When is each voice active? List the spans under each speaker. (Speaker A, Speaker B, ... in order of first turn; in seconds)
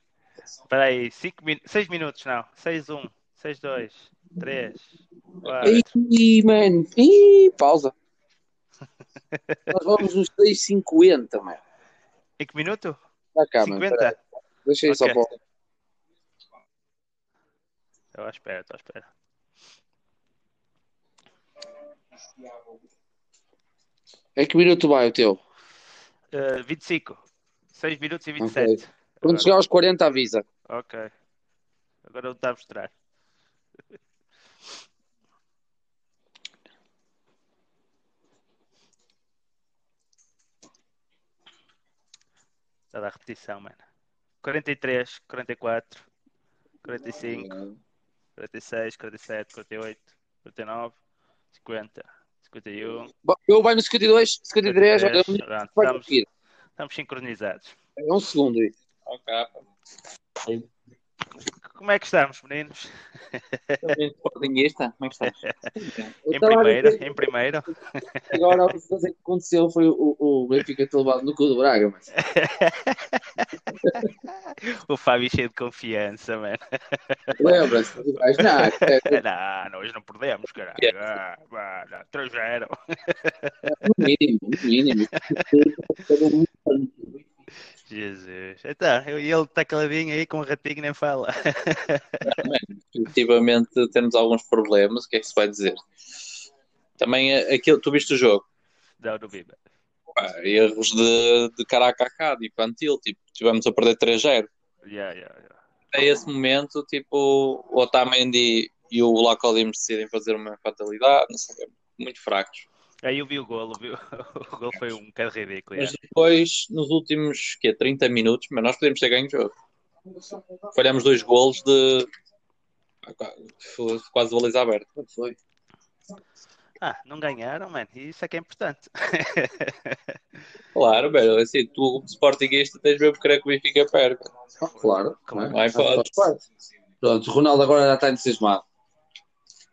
Speaker A: 0.7-5.9, 9.3-9.7, 12.4-13.0, 13.6-14.2, 14.9-15.3, 18.1-19.1, 26.3-27.2, 27.7-29.5, 30.7-31.1, 32.0-32.9, 42.9-43.8, 44.4-46.0, 46.8-47.6, 48.4-51.0, 51.5-53.1, 54.6-56.1, 56.8-57.8, 61.7-64.0, 65.2-68.7, 72.2-77.7, 78.3-83.8, 85.1-85.5, 87.9-92.5, 99.0-99.6, 104.8-105.6, 113.0-116.0, 126.8-130.0, 135.3-135.6
Speaker B: 5.4-5.8, 59.1-59.6, 63.8-66.1, 92.2-95.8, 97.0-98.5, 100.2-104.5, 105.9-112.7, 115.8-119.5, 120.7-122.1, 123.1-124.9, 130.8-134.3, 135.5-136.1
Speaker C: 5.6-7.9, 9.7-11.6, 13.3-15.3, 24.4-25.4, 28.4-30.4, 53.2-56.3, 58.0-58.7, 66.2-67.2, 68.3-72.1, 77.4-79.2, 83.7-87.1, 125.0-125.4, 134.6-136.4, 137.0-138.6